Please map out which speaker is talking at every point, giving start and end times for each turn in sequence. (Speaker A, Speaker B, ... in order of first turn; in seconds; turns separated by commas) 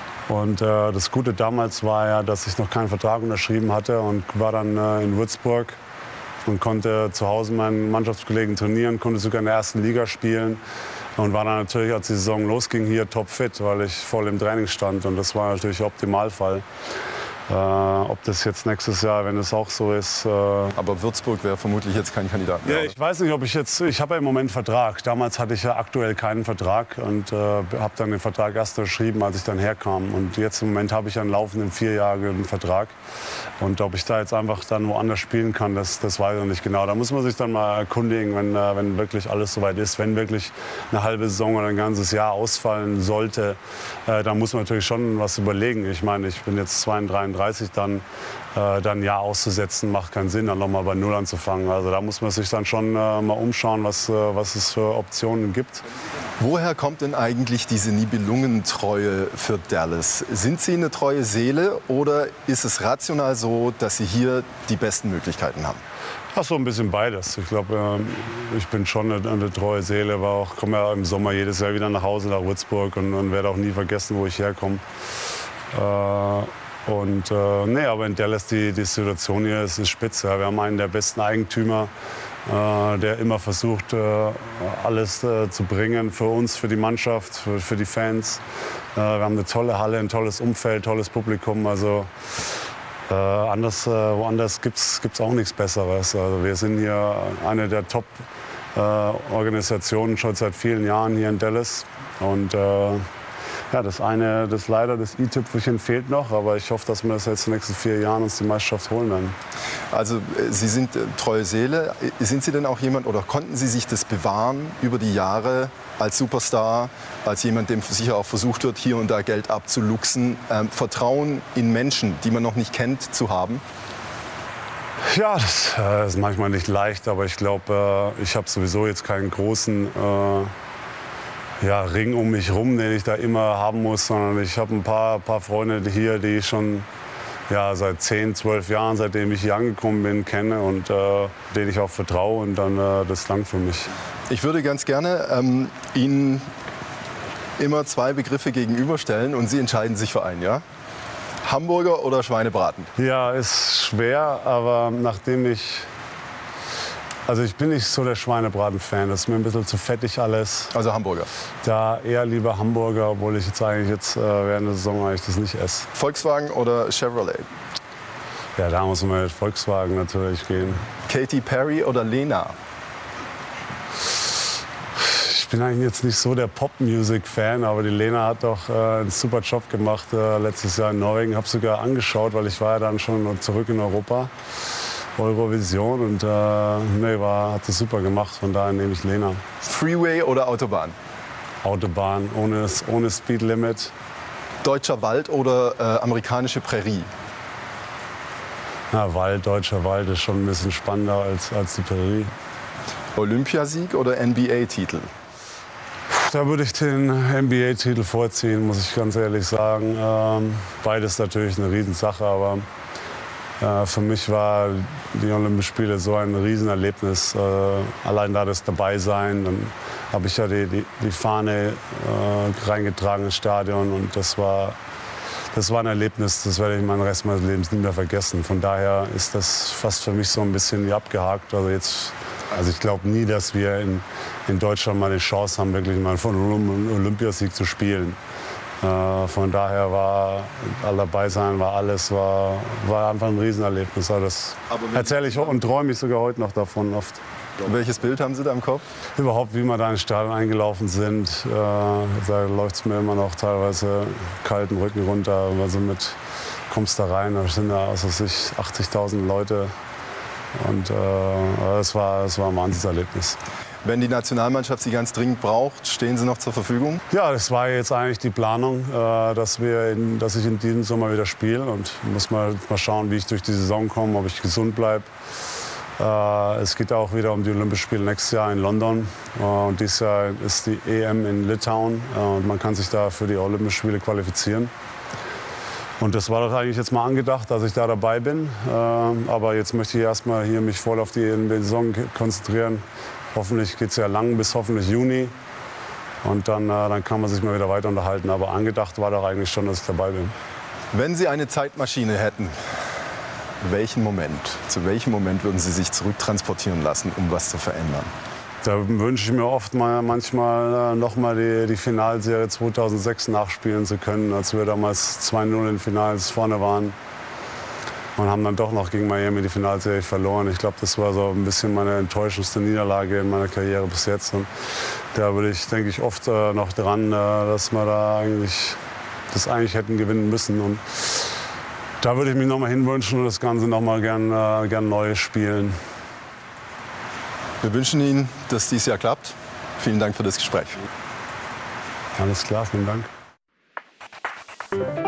Speaker A: 0.3-5.8, Speaker A: 6.4-10.6, Speaker A: 11.2-16.6, Speaker A: 17.5-20.8, Speaker B: 20.8-22.9, Speaker A: 22.6-32.9, Speaker A: 33.6-55.8, Speaker B: 56.4-65.8, Speaker A: 66.3-74.8, Speaker A: 75.7-81.9, Speaker A: 82.5-88.4, Speaker A: 88.9-92.1, Speaker A: 93.1-103.0, Speaker A: 103.7-109.3, Speaker B: 109.9-123.6, Speaker A: 125.1-130.5, Speaker A: 131.6-136.9, Speaker A: 137.5-143.9, Speaker B: 144.3-146.4, Speaker B: 147.6-150.6, Speaker B: 151.4-152.9, Speaker A: 152.9-155.9, Speaker A: 157.2-160.7, Speaker B: 160.7-161.3, Speaker A: 161.6-165.9, Speaker B: 165.9-167.5, Speaker A: 168.6-170.8, Speaker B: 171.1-172.5, Speaker A: 175.0-184.3, Speaker A: 185.2-189.4, Speaker B: 189.6-190.9, Speaker A: 191.6-193.9, Speaker B: 194.6-197.1, Speaker A: 198.9-202.3, Speaker B: 203.1-205.1, Speaker A: 206.1-212.6, Speaker A: 213.6-224.8, Speaker A: 225.5-238.2, Speaker A: 238.8-247.2, Speaker B: 247.6-248.8, Speaker A: 249.2-256.2, Speaker A: 256.7-259.7, Speaker A: 260.5-263.4, Speaker B: 263.8-267.0, Speaker A: 267.1-275.1, Speaker A: 276.0-284.7, Speaker A: 286.0-295.3, Speaker A: 296.2-300.3, Speaker B: 300.9-302.5, Speaker B: 303.6-308.1, Speaker A: 308.6-316.9, Speaker A: 318.1-324.5, Speaker A: 325.1-328.8, Speaker A: 329.3-330.8, Speaker A: 332.0-335.8, Speaker B: 337.6-340.8, Speaker A: 342.2-343.1